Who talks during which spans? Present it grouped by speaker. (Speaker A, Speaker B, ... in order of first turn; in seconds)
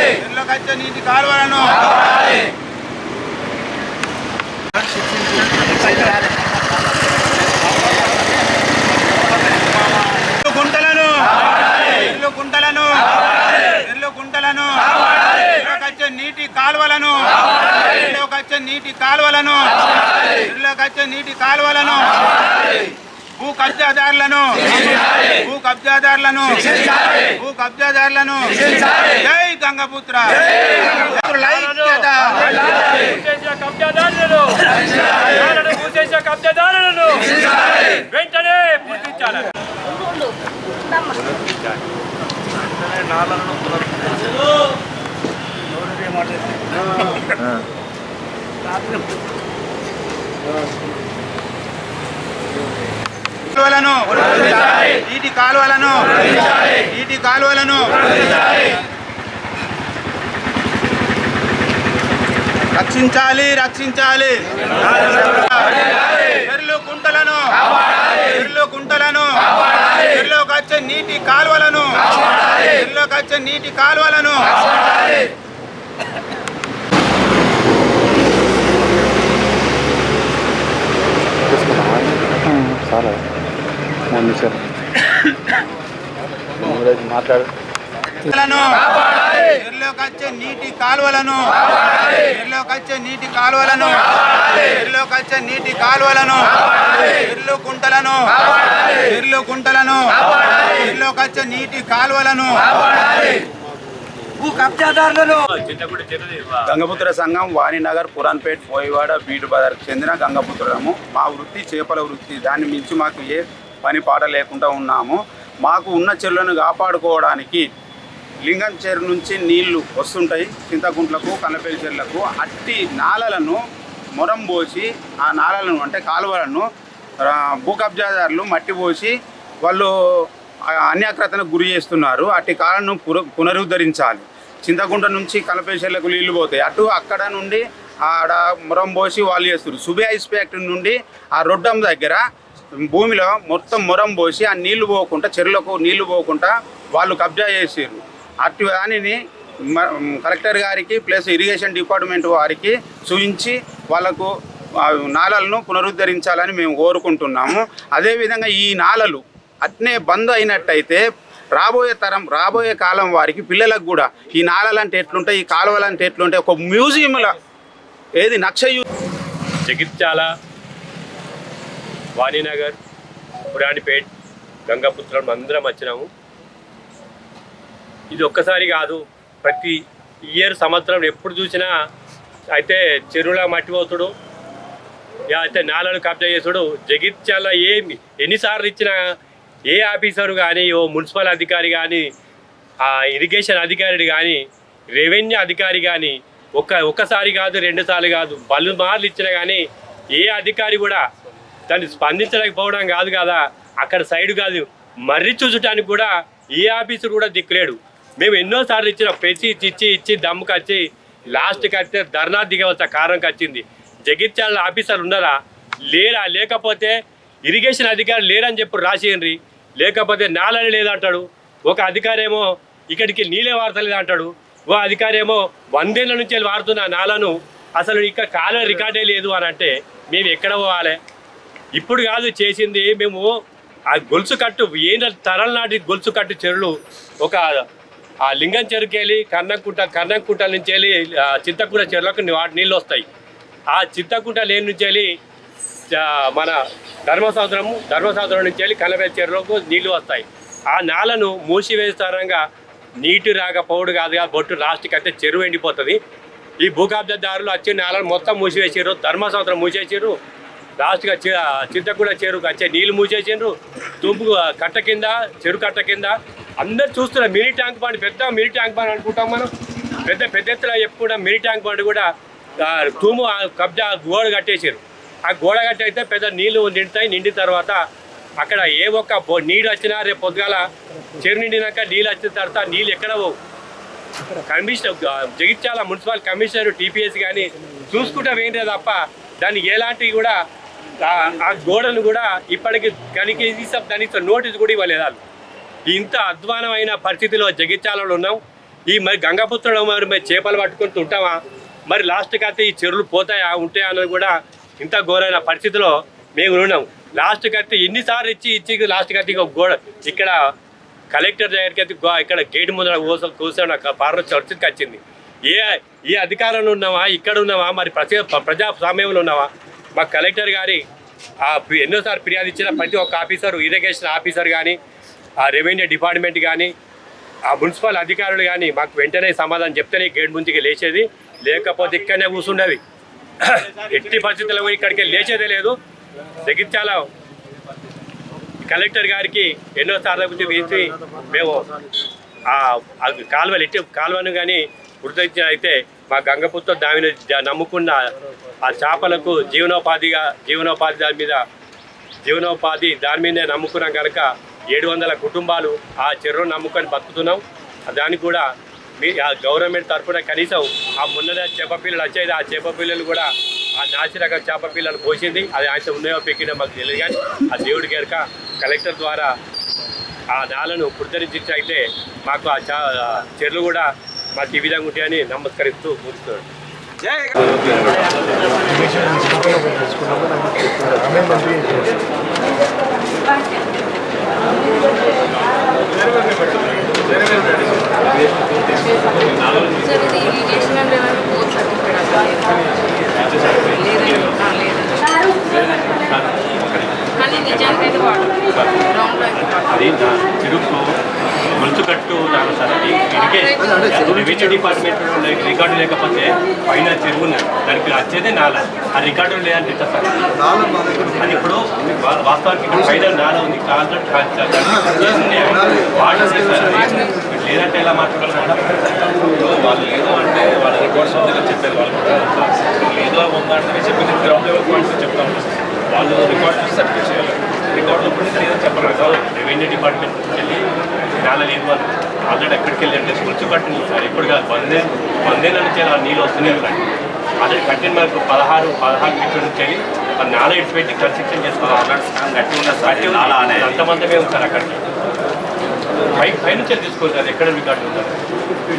Speaker A: 0.2-1.9, 4.8-6.2, 10.3-22.3, 23.4-26.7, 27.4-32.4, 53.5-58.7, 62.7-65.8, 66.3-74.6, 88.2-102.7, 106.7-117.7, 118.5-123.6, 124.2-126.7, 127.2-129.1, 129.6-129.9, 130.7-142.2, 142.9-149.2, 149.7-154.3, 154.8-161.0, 161.6-167.3, 168.2-168.8
Speaker B: 31.4-39.5, 104.4-106.7, 169.7-170.3, 172.2-172.8, 173.5-174.1, 174.7-176.1, 178.1-179.8, 180.3-181.7, 182.5-184.1, 185.3-189.0, 189.7-192.1, 192.8-194.4, 194.9-199.6, 200.1-201.0, 201.7-215.3, 215.9-231.0, 231.8-233.3, 233.9-236.7, 237.2-237.6, 238.3-243.0, 243.7-245.1, 245.9-252.4, 253.0-256.0, 256.6-260.1, 260.8-269.5, 270.0-272.1, 272.6-277.8, 278.4-280.6, 281.2-283.4, 284.4-290.4, 291.0-295.2, 295.9-301.4, 301.9-310.4, 311.1-320.8, 321.4-324.8, 325.4-326.7, 327.5-332.8, 333.4-335.8, 336.4-337.1, 338.6-341.7, 342.5-348.1, 348.6-351.4, 352.2-358.4, 359.0-369.3, 370.3-376.4, 377.2-378.1, 393.9-394.8, 395.5-400.9, 401.6-410.3, 410.9-418.7, 428.6-430.6, 431.2-436.9, 437.4-441.9, 442.8-444.8, 446.1-448.2
Speaker C: 43.4-44.0, 389.8-390.7, 393.4-393.9, 419.4-429.0, 441.6-443.7
Speaker D: 81.5-83.2, 84.1-84.6, 86.6-87.5
Speaker E: 390.7-392.6, 394.6-394.9